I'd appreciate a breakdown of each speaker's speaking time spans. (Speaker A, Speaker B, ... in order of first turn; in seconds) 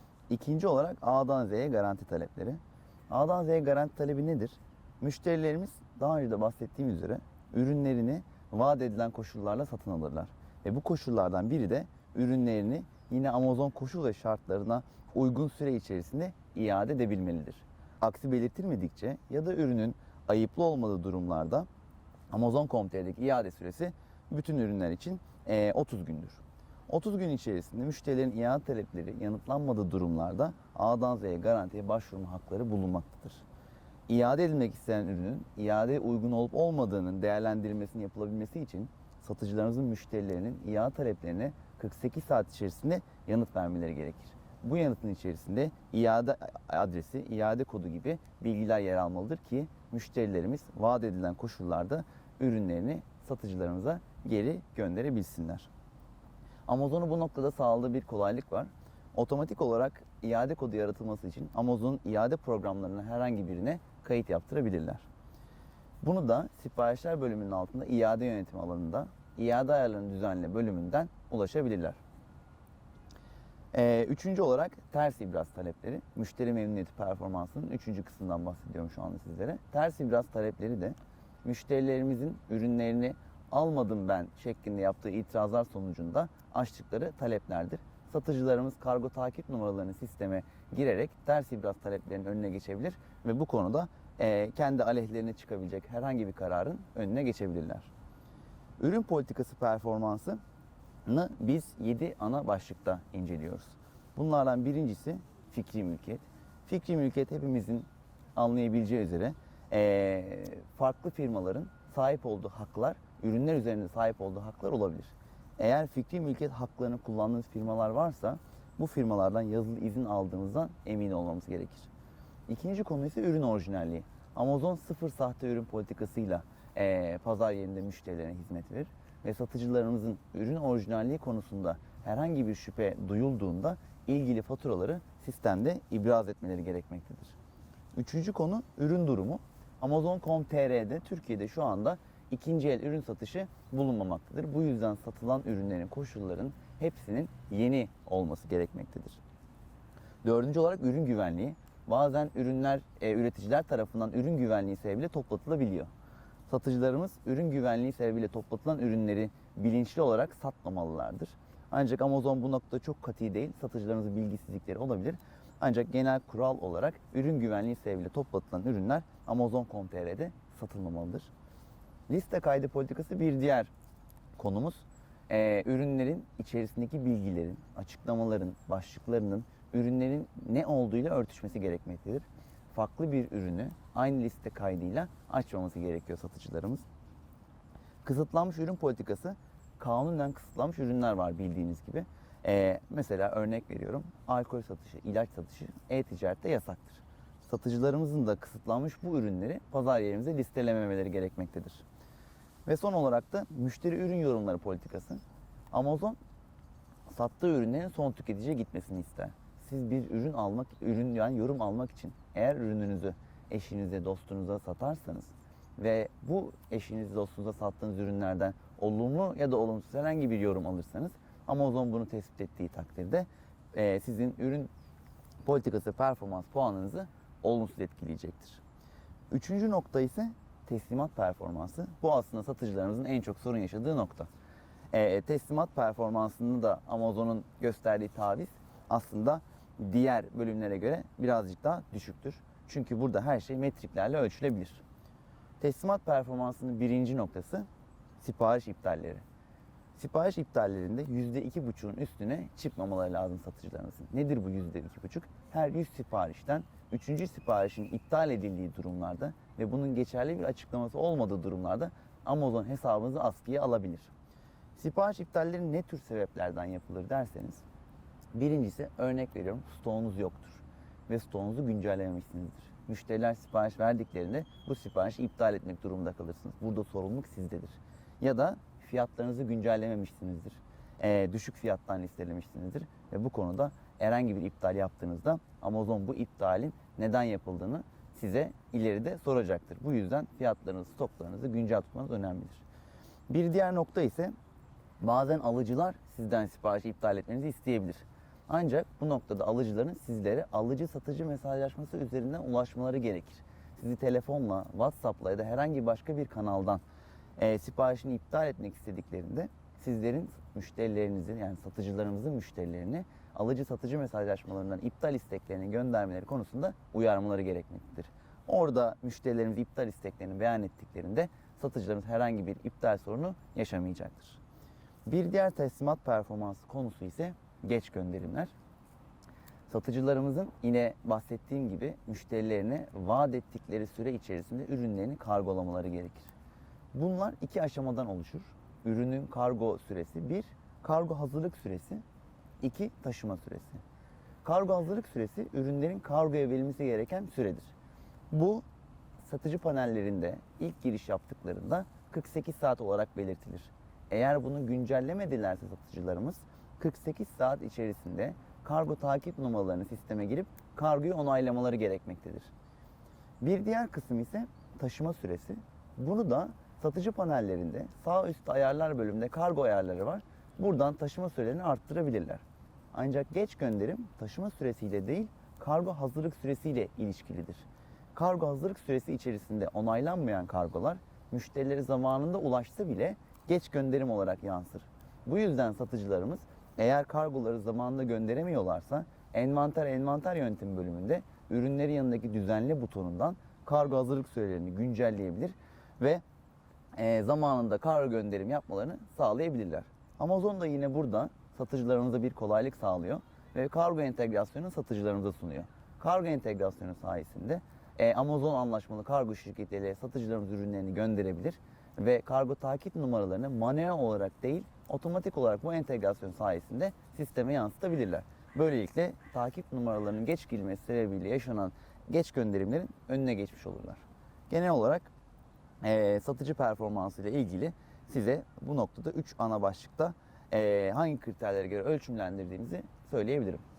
Speaker A: 0.3-21.7, 22.3-33.4, 34.1-55.7, 56.7-65.0, 66.0-72.0, 73.7-97.9, 98.8-100.4, 101.0-121.9, 122.5-137.3, 137.9-149.2, 150.2-155.9, 156.5-171.3, 172.1-173.7, 174.4-186.8, 188.0-201.8, 202.7-206.2, 207.1-224.7, 225.4-228.6, 229.3-234.3, 234.9-244.8, 245.6-247.7, 248.2-249.2, 249.9-264.1, 264.8-267.6, 268.3-292.6, 293.3-294.3, 295.0-306.8, 307.4-324.4, 325.1-328.5, 329.7-336.3, 336.9-342.0, 342.6-343.8, 344.4-347.7, 348.3-348.6, 349.2-362.5, 363.4-396.2, 397.0-425.1, 425.8-433.6